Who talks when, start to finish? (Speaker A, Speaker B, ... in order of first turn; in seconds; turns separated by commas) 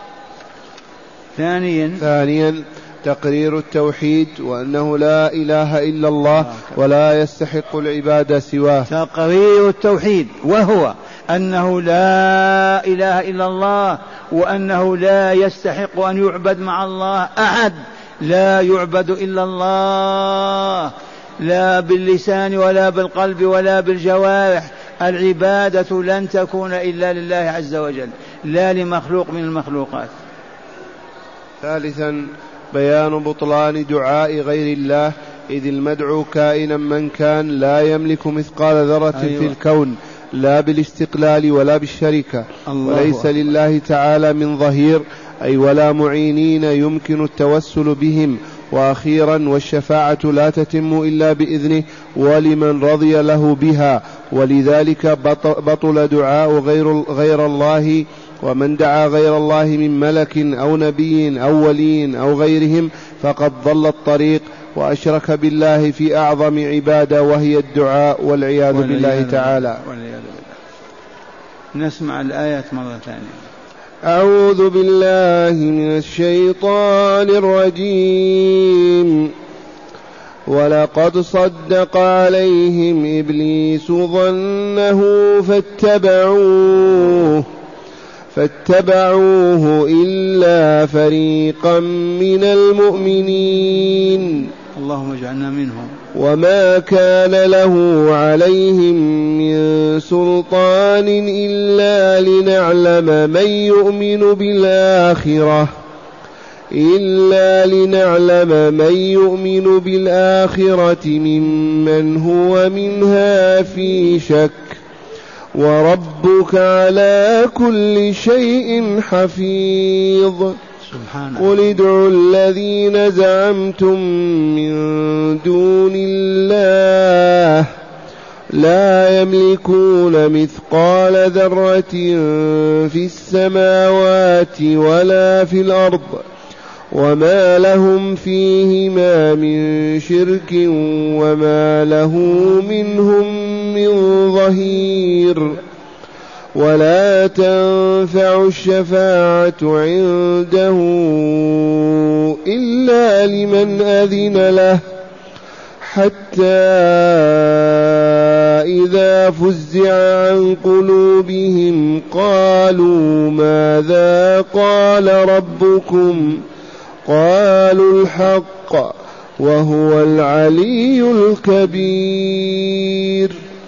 Speaker A: 1.4-2.0, Speaker B: 2.0-8.9, Speaker A: 6.4-6.7, Speaker A: 8.9-30.1, Speaker B: 31.6-69.8, Speaker A: 39.1-39.5, Speaker A: 42.6-43.3, Speaker A: 68.7-70.5, Speaker A: 71.7-73.4, Speaker B: 74.0-79.3, Speaker B: 80.5-87.5, Speaker B: 88.3-94.5, Speaker A: 94.7-95.9, Speaker B: 96.1-105.7, Speaker B: 106.7-114.8, Speaker B: 115.5-120.6, Speaker A: 120.8-121.5, Speaker B: 121.4-127.7, Speaker B: 128.5-136.2, Speaker B: 136.9-145.6, Speaker B: 146.5-154.8, Speaker B: 155.8-166.4, Speaker B: 167.1-173.4